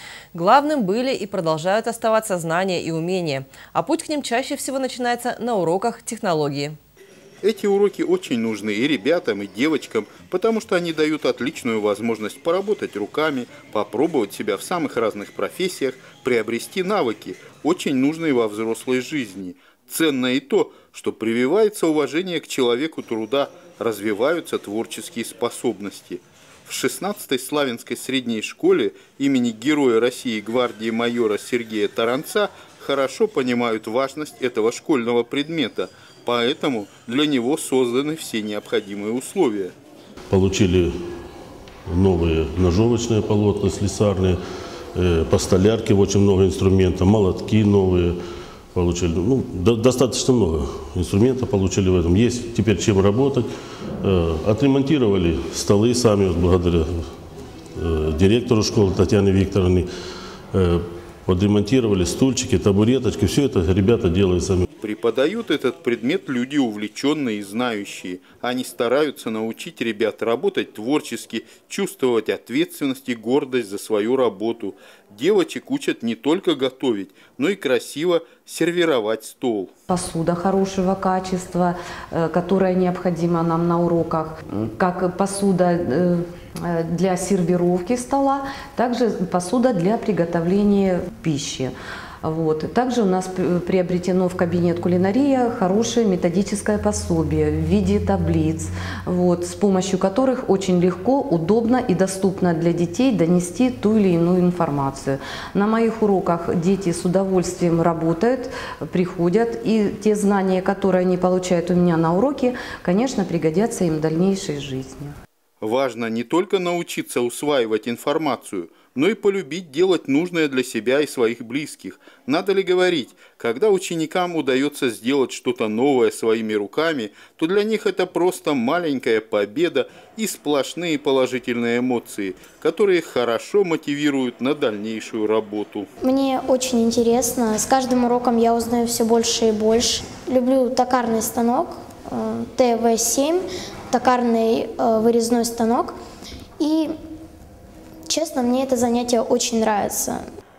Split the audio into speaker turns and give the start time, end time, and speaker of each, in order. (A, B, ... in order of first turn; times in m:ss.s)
0:00.3-0:06.8 A
0:07.4-0:39.7 B
0:40.3-0:40.9 C
0:41.9-0:44.4 C
0:44.9-0:48.2 C
0:48.7-0:53.5 C
0:54.0-0:56.9 C
0:57.8-0:59.9 C
1:00.5-1:04.7 C
1:04.8-1:19.7 B
1:19.9-1:55.1 D
1:55.6-2:15.9 B
2:16.0-2:26.0 E
2:26.6-2:26.9 E
2:28.1-2:30.2 E